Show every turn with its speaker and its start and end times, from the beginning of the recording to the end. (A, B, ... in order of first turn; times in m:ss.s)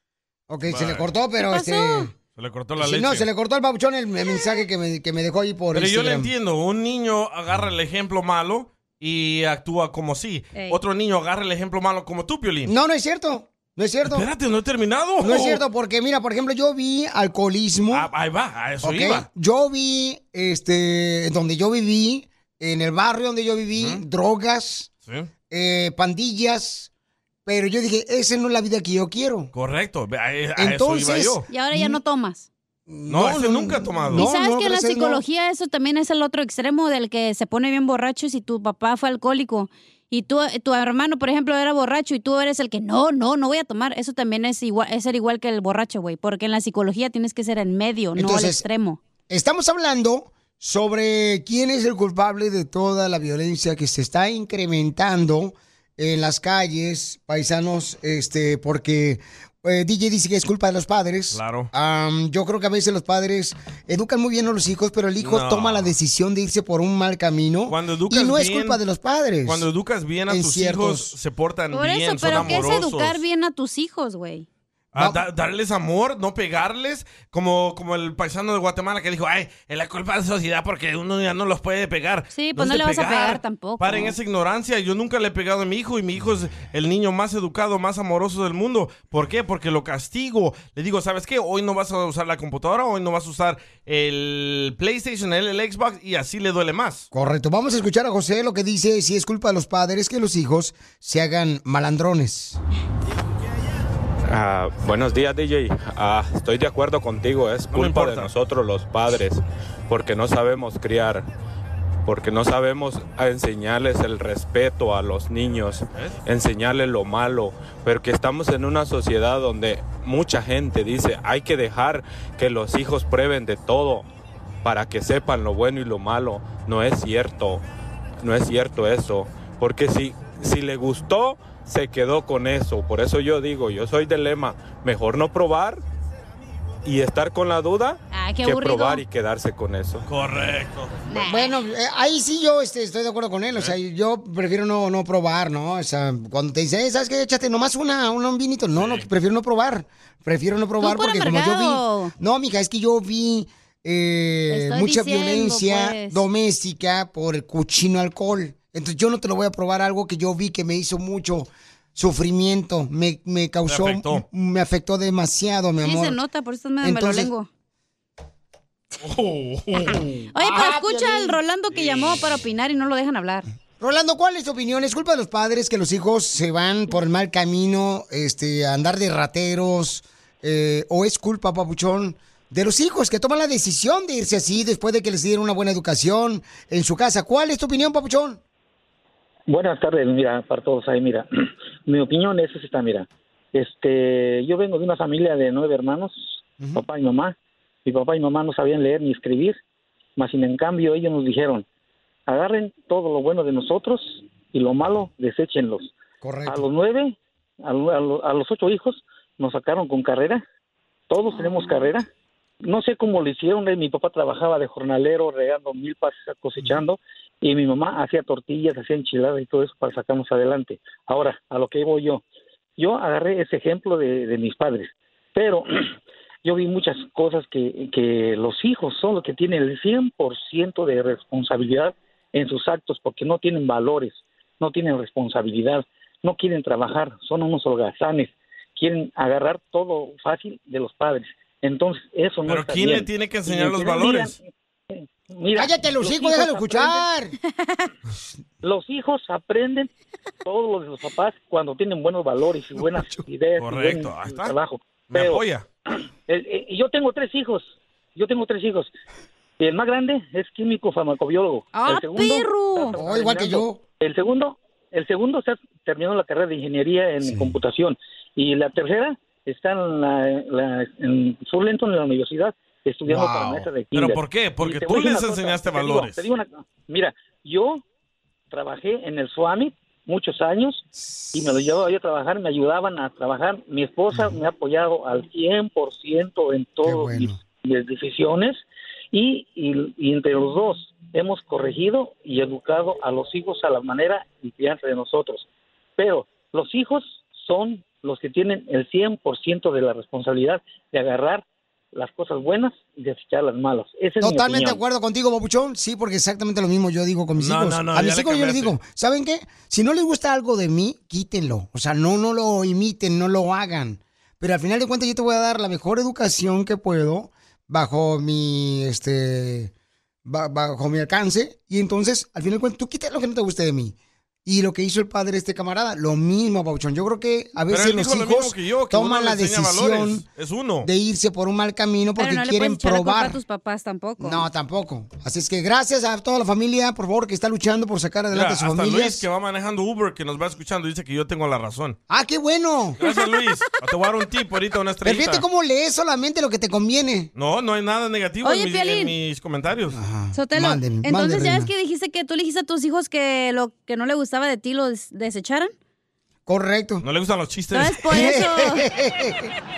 0:00.5-0:02.1 A
0:00.7-0:01.1 B
0:01.5-0:02.1 C
0:02.4-0:03.3 B
0:02.8-0:06.3 A
0:05.7-0:12.7 B
0:12.7-0:14.3 A
0:14.0-0:15.6 B
0:15.2-0:18.1 A
0:17.9-0:19.2 B
0:18.8-0:24.9 A
0:23.8-0:24.0 B
0:25.5-0:26.9 A
0:27.5-0:29.5 A
0:29.5-0:31.5 B
0:30.6-0:32.0 A
0:31.5-0:32.5 C
0:32.9-0:35.2 A
0:33.1-0:34.3 B
0:34.1-0:49.0 C
0:48.2-0:48.6 A
0:49.3-1:09.7 A
1:01.3-1:01.7 B
1:05.2-1:06.0 B
1:07.7-1:08.8 B
1:09.4-1:13.2 B
1:10.3-1:11.1 A
1:11.7-1:14.5 C
1:14.9-1:37.1 B
1:22.3-1:24.2 C
1:37.1-1:42.6 A
1:44.3-1:51.3 D
1:47.7-1:48.3 B
1:52.0-2:04.1 D
2:04.6-2:07.6 D
2:08.2-2:15.8 D
2:16.8-2:20.1 D
2:18.1-2:19.0 C
2:20.1-2:21.0 B
2:21.1-2:21.5 C
2:21.2-2:46.2 A
2:28.8-2:29.1 B
2:30.8-2:32.1 C
2:34.5-2:36.2 C
2:43.7-2:44.2 B
2:45.8-2:47.5 C
2:46.8-2:47.3 A
2:49.0-2:50.0 B
2:49.9-2:51.4 A
2:50.4-2:53.5 C
2:51.7-2:52.4 B
2:53.8-3:08.4 A
3:09.5-3:11.3 E
3:11.9-3:19.6 E
3:20.2-3:21.6 E
3:22.3-3:25.9 E
3:26.2-3:26.6 A
3:26.5-3:30.4 E
3:31.1-3:32.1 E
3:32.6-3:42.2 E
3:42.8-3:45.7 E
3:46.4-4:04.4 E
4:02.5-4:04.3 B
4:04.9-4:07.0 E
4:05.6-4:07.3 A
4:08.6-4:09.9 E
4:10.4-4:15.4 E
4:12.8-4:13.2 A
4:13.6-4:14.5 B
4:15.1-4:15.6 B
4:16.3-4:18.9 E
4:19.6-4:37.8 E
4:21.7-4:23.0 C
4:23.0-4:23.8 A
4:27.2-4:27.6 A
4:33.1-4:33.6 A
4:33.9-4:36.3 B
4:38.5-4:55.5 E
4:41.0-4:41.6 A
4:46.8-4:47.4 A
4:56.0-5:04.8 E
5:04.2-5:19.7 A
5:07.4-5:08.8 B
5:20.3-5:24.0 A
5:24.5-5:30.2 A
5:27.7-5:30.9 B
5:30.8-5:33.4 A
5:32.2-5:34.4 C
5:34.2-5:39.2 A
5:38.3-5:42.0 B
5:42.1-5:43.0 A
5:43.0-5:45.4 B
5:45.0-5:47.3 A
5:47.4-5:50.0 B
5:48.4-5:49.1 C
5:49.9-5:51.7 A
5:50.3-5:55.7 C
5:56.5-5:57.0 A
5:57.0-5:58.1 B
5:57.7-5:58.8 C
5:58.1-5:59.5 A